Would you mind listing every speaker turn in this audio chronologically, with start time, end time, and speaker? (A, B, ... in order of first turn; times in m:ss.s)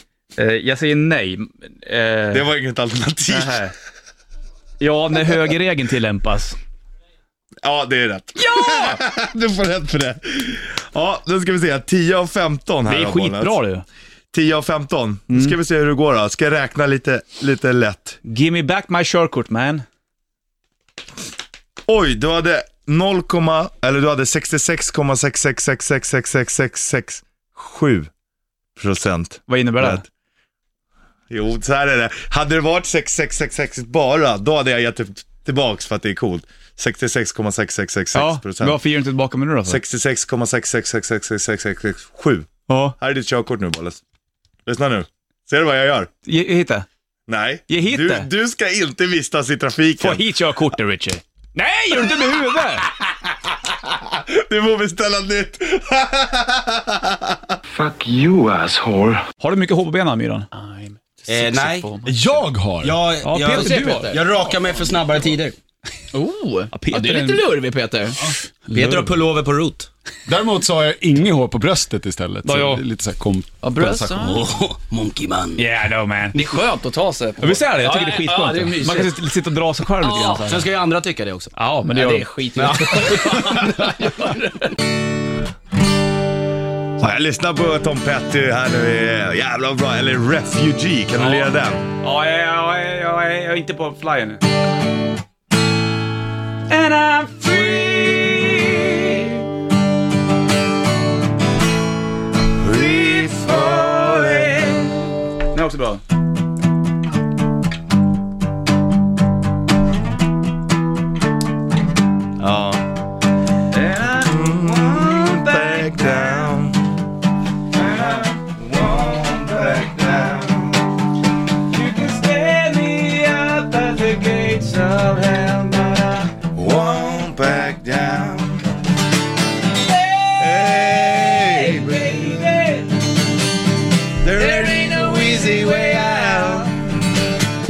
0:00.4-0:02.4 A
0:02.3-0:03.7 B
0:03.3-0:03.7 A
0:04.8-0:06.6 A
0:07.6-0:13.6 B
0:08.6-0:08.9 A
0:12.8-0:13.8 A
0:14.3-0:18.2 B
0:15.3-0:15.6 A
0:18.2-0:19.8 A
0:21.9-0:28.1 B
0:28.8-0:30.1 B
0:29.5-0:30.0 A
0:31.3-0:38.8 B
0:38.1-0:39.8 A
0:39.6-0:44.0 B
0:42.7-0:42.9 A
0:44.6-0:46.1 B
0:46.2-0:46.9 A
0:47.3-0:50.2 B
0:47.7-0:48.3 A
0:50.0-0:52.9 A
0:53.0-0:57.6 B
0:59.4-1:02.4 A
1:01.3-1:02.0 C
1:02.0-1:03.0 D
1:02.8-1:05.6 C
1:03.2-1:04.2 A
1:06.1-1:08.1 E
1:06.7-1:07.4 A
1:07.1-1:07.4 C
1:08.7-1:09.9 C
1:08.7-1:09.1 A
1:10.3-1:14.4 D
1:12.4-1:12.8 A
1:13.6-1:14.3 E
1:14.2-1:15.6 C
1:15.6-1:16.4 A
1:16.3-1:16.7 C
1:16.6-1:19.1 E
1:17.4-1:20.7 A
1:20.0-1:20.4 E
1:20.1-1:23.9 C
1:21.5-1:23.9 A
1:27.0-1:31.8 B
1:31.2-1:34.4 A
1:36.7-1:39.4 A
1:42.6-1:44.9 B
1:42.7-1:44.9 A
1:45.5-1:46.0 A
1:52.4-1:52.9 B
1:53.7-1:56.5 A
1:54.1-1:57.0 B
1:57.8-1:59.8 A
1:58.7-2:00.8 B
2:01.7-2:06.3 A
2:06.5-2:08.7 B
2:10.1-2:12.9 A
2:10.4-2:12.4 B
2:14.2-2:16.7 B
2:14.7-2:16.4 A